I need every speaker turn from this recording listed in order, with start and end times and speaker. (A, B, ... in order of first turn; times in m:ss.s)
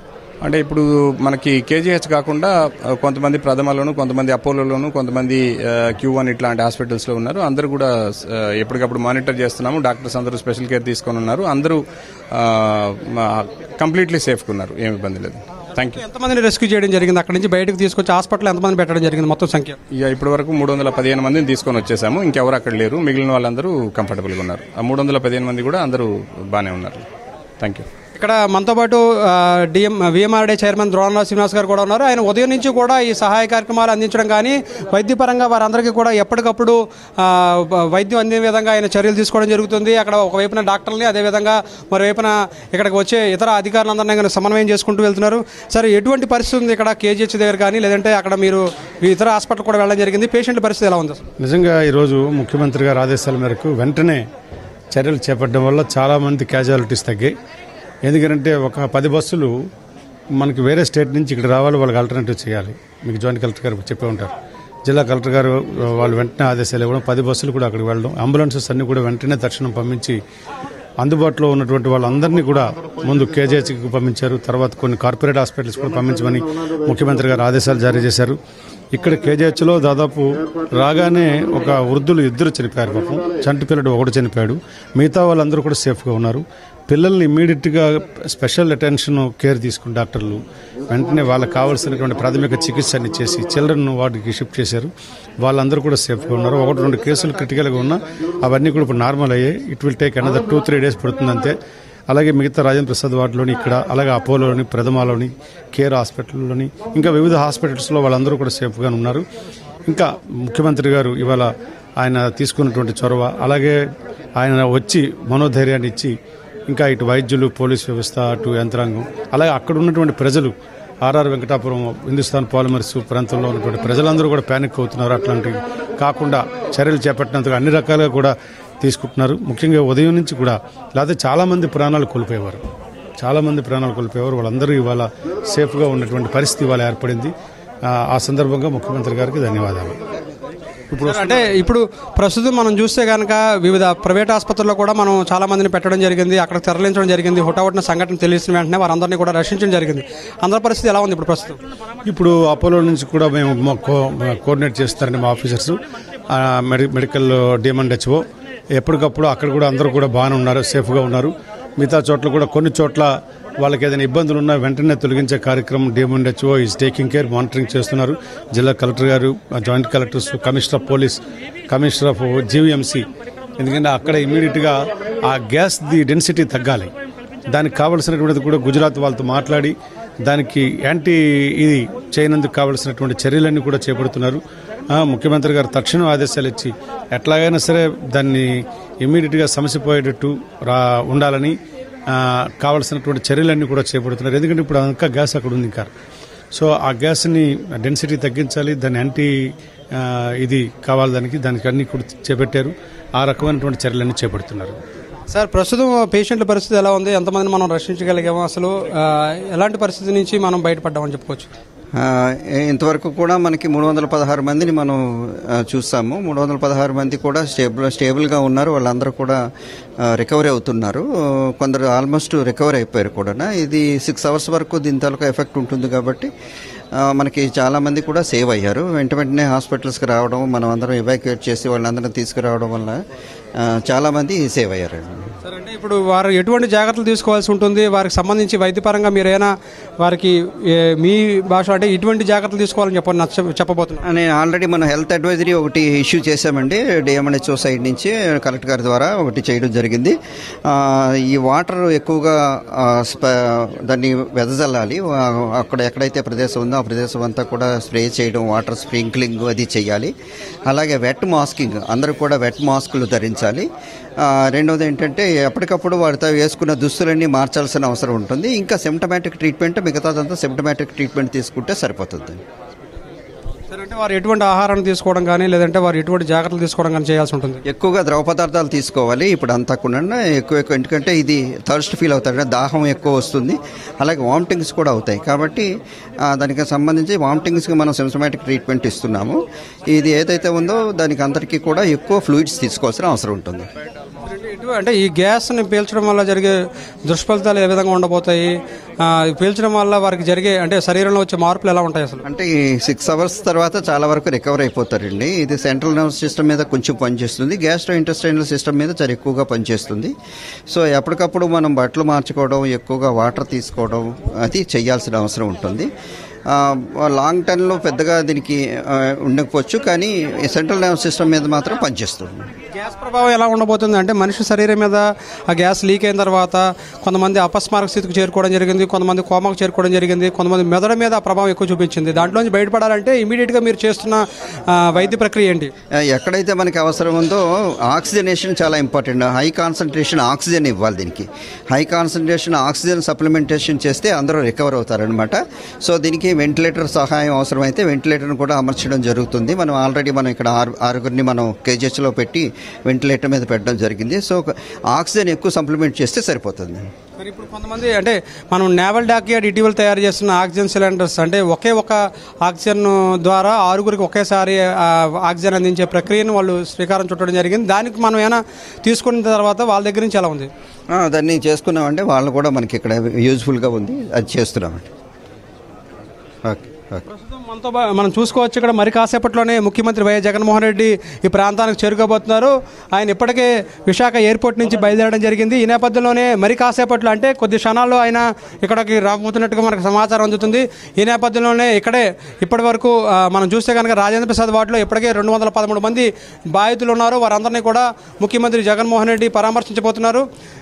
0:00.4-0:11.8 A
0:12.4-0:16.0 A
0:16.0-0:19.8 B
0:20.0-0:27.1 A
0:27.6-0:27.9 A
0:28.2-0:51.2 B
0:51.4-0:54.2 C
0:54.9-0:57.3 C
0:58.0-0:59.5 C
1:00.4-1:04.3 C
1:04.8-1:10.2 C
1:11.0-1:18.4 C
1:18.9-1:34.9 C
1:35.4-1:41.6 C
1:42.1-1:49.2 C
1:49.9-1:51.5 C
1:52.0-1:53.8 C
1:54.4-1:56.2 C
1:56.7-2:00.6 C
2:01.1-2:12.6 C
2:13.2-2:17.3 C
2:17.9-2:20.0 C
2:20.9-2:31.6 B
2:32.1-2:35.8 C
2:36.4-2:38.2 C
2:38.8-2:53.1 C
2:53.6-2:56.9 C
2:57.5-2:59.8 C
3:00.3-3:04.4 C
3:05.0-3:11.6 C
3:12.1-3:15.9 C
3:16.5-3:19.3 C
3:20.0-3:24.8 C
3:25.3-3:31.5 B
3:32.0-3:39.4 D
3:40.0-3:46.3 D
3:47.0-3:53.0 D
3:53.6-3:55.3 D
3:55.5-4:04.0 B
4:04.0-4:20.1 D
4:20.7-4:23.7 D
4:24.2-4:32.4 D
4:33.7-4:37.6 B
4:37.7-4:45.7 D
4:46.3-4:53.7 D
4:54.3-5:02.2 B
5:02.2-5:10.1 D
5:10.7-5:15.9 D
5:16.5-5:22.5 D
5:22.7-5:35.7 B
5:36.0-5:56.9 D
5:57.2-6:10.5 B
6:10.9-6:14.9 D
6:16.4-6:17.1 D
6:17.2-6:40.3 B